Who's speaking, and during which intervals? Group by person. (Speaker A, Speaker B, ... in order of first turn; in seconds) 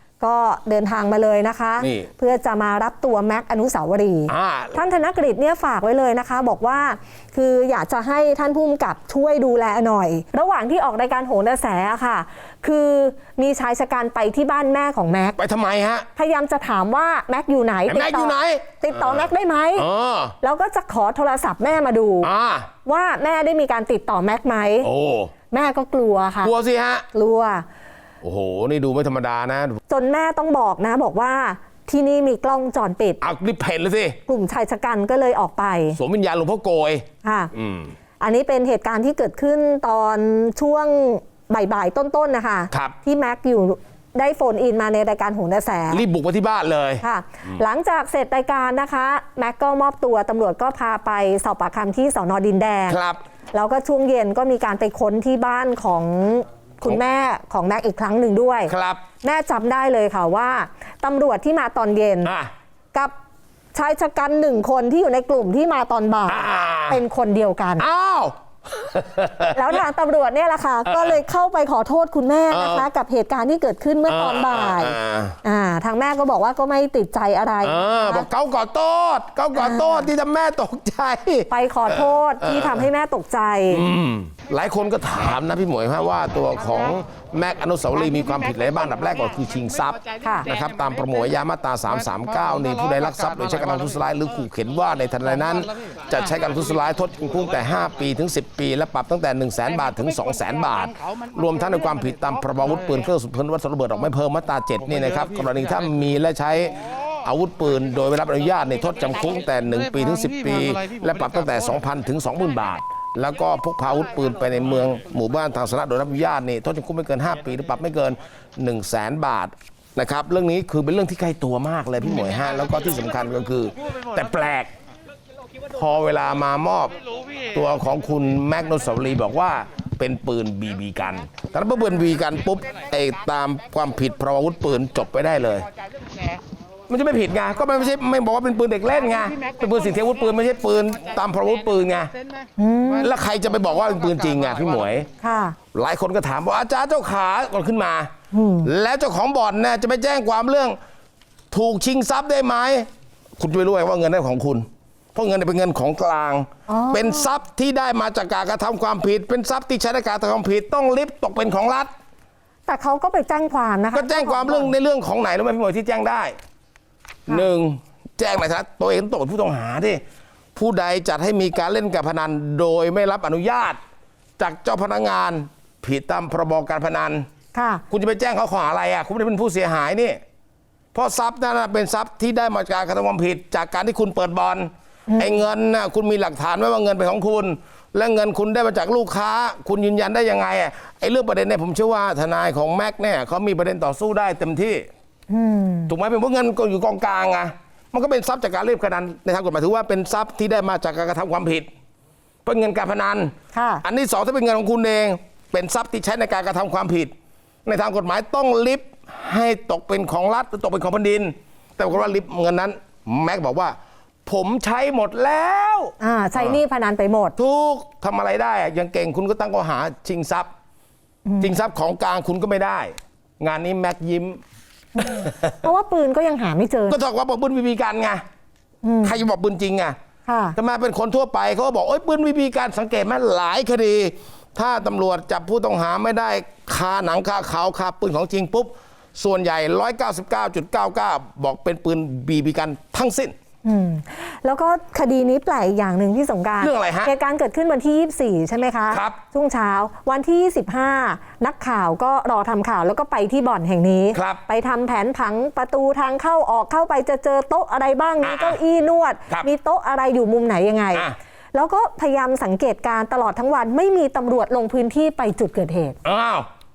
Speaker A: 0.2-15.4, 16.1-19.9, 20.4-22.3, 22.8-24.9, 25.5-26.5, 27.1-27.6, 29.9-33.2, 34.3-36.0, 37.2-37.5, 38.2-46.0, 47.0-53.0, 53.5-62.3, 63.7-67.8, 69.5-78.2, 79.5-80.1, 81.5-83.8, 90.2-90.5, 142.6-143.1, 145.2-145.5, 148.3-148.7, 156.7-157.2, 162.7-164.7, 177.5-177.8, 185.1-185.4, 195.3-195.9, 203.5-203.8, 216.0-217.3, 221.2-221.6, 224.9-227.0, 228.8-229.2, 230.3-230.6, 243.6-266.0
Speaker B: 1.8-2.1, 4.3-4.8, 15.4-16.1, 17.9-20.3, 22.2-22.7, 24.8-25.3, 26.4-27.0, 28.2-29.8, 33.2-34.2, 35.9-37.9, 42.7-43.0, 45.9-47.6, 52.9-53.2, 58.7-59.0, 62.2-62.5, 66.3-67.0, 67.8-69.8, 70.8-71.2, 72.5-72.9, 74.1-75.4, 77.6-82.9, 83.7-124.7, 125.7-127.0, 127.5-135.7, 136.9-142.1, 142.9-145.1, 145.7-148.1, 148.6-150.8, 151.5-161.9, 163.9-166.3, 167.3-170.0, 170.5-173.8, 174.4-177.3, 177.9-180.2, 180.9-194.9, 195.9-201.7, 202.4-207.1, 207.7-216.6, 217.4-220.5, 221.4-224.4, 225.0-225.6, 226.9-228.2, 229.0-229.9, 230.6-243.3, 246.6-247.1, 248.9-249.2, 254.1-254.4, 258.2-258.6, 266.0-266.5